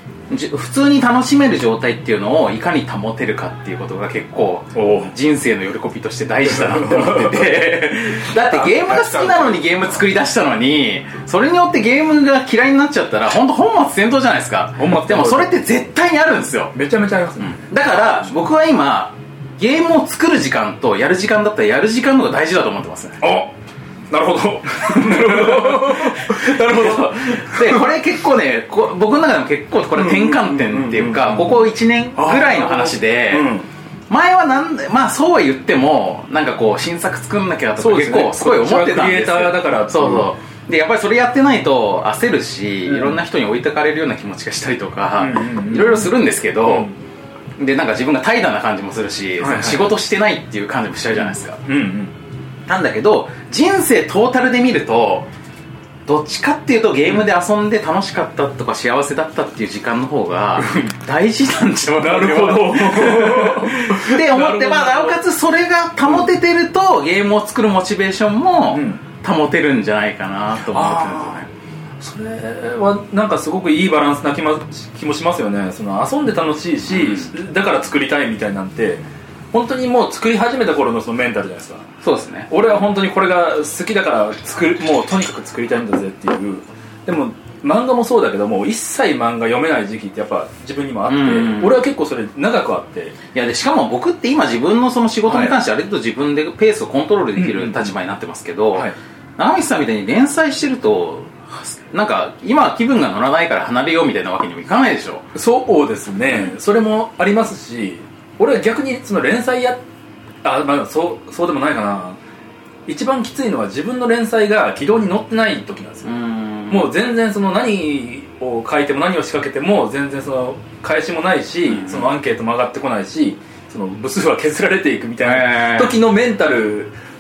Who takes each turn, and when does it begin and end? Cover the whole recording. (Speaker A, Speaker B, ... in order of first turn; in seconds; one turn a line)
Speaker A: 0.3-16.7
Speaker B: 4.7-5.1
Speaker B: 6.5-7.6
Speaker B: 8.5-9.5
Speaker B: 14.8-15.6
Speaker B: 16.7-17.7
Speaker A: 17.4-23.2
Speaker B: 23.2-23.5
Speaker B: 24.1-27.9
Speaker A: 24.9-33.5
Speaker B: 29.9-33.7
Speaker A: 34.1-46.9
Speaker B: 37.8-40.3
Speaker B: 42.9-43.2
Speaker B: 45.2-46.1
Speaker B: 46.6-46.9
Speaker A: 47.6-51.6
Speaker B: 49.4-50.0
Speaker B: 51.6-52.1
Speaker A: 52.7-55.3
Speaker A: 56.1-71.5
Speaker B: 60.6-61.0
Speaker B: 62.0-65.2
Speaker B: 68.7-69.0
Speaker B: 70.7-71.4
Speaker B: 72.0-81.9
Speaker A: 76.9-77.3
Speaker A: 82.0-82.5
Speaker B: 82.5-93.2
Speaker A: 91.1-91.8
Speaker A: 93.3-105.3
Speaker B: 95.3-95.5
Speaker B: 97.4-97.9
Speaker B: 105.3-109.8
Speaker B: 110.4-112.2
Speaker B: 112.9-116.1
Speaker A: 116.0-116.9
Speaker B: 116.7-126.9
Speaker A: 121.7-122.2
Speaker A: 125.2-126.0